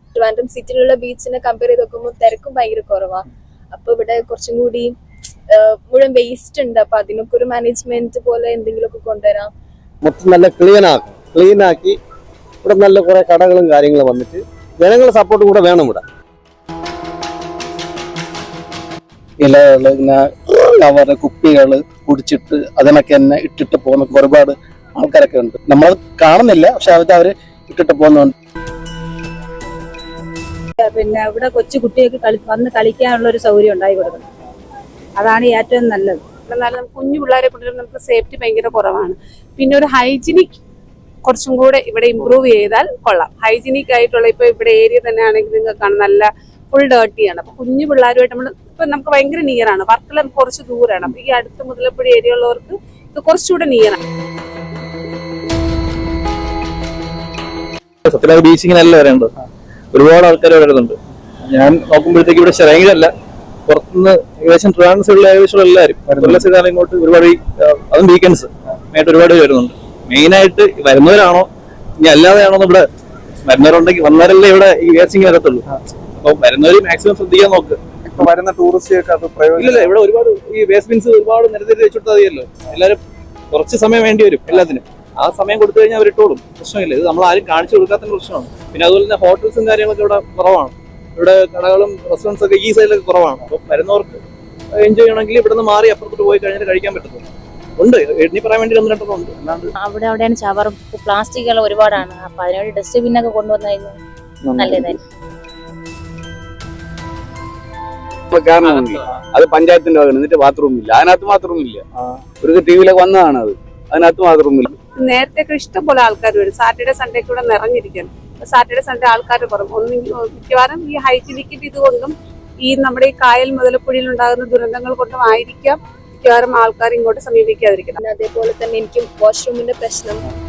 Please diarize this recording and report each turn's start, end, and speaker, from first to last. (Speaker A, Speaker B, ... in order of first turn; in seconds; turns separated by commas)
Speaker A: 0.2-4.9, Speaker A: 5.5-9.5, Speaker B: 10.1-11.9, Speaker B: 12.7-16.0, Speaker C: 19.4-28.3, Speaker D: 30.8-34.2, Speaker D: 35.2-36.3, Speaker E: 36.4-40.6, Speaker E: 41.2-54.0, Speaker F: 58.1-59.3, Speaker F: 59.9-63.1, Speaker F: 63.7-71.5, Speaker F: 72.0-72.8, Speaker F: 73.4-75.6, Speaker F: 76.2-77.8, Speaker G: 78.1-79.9, Speaker F: 79.6-83.0, Speaker F: 83.5-94.2, Speaker F: 94.8-97.2, Speaker F: 97.8-99.7, Speaker H: 99.8-104.0, Speaker H: 104.5-105.0, Speaker G: 104.6-104.8, Speaker I: 108.3-111.8, Speaker F: 108.6-109.0, Speaker I: 112.4-114.7, Speaker E: 115.0-128.0, Speaker A: 128.0-130.2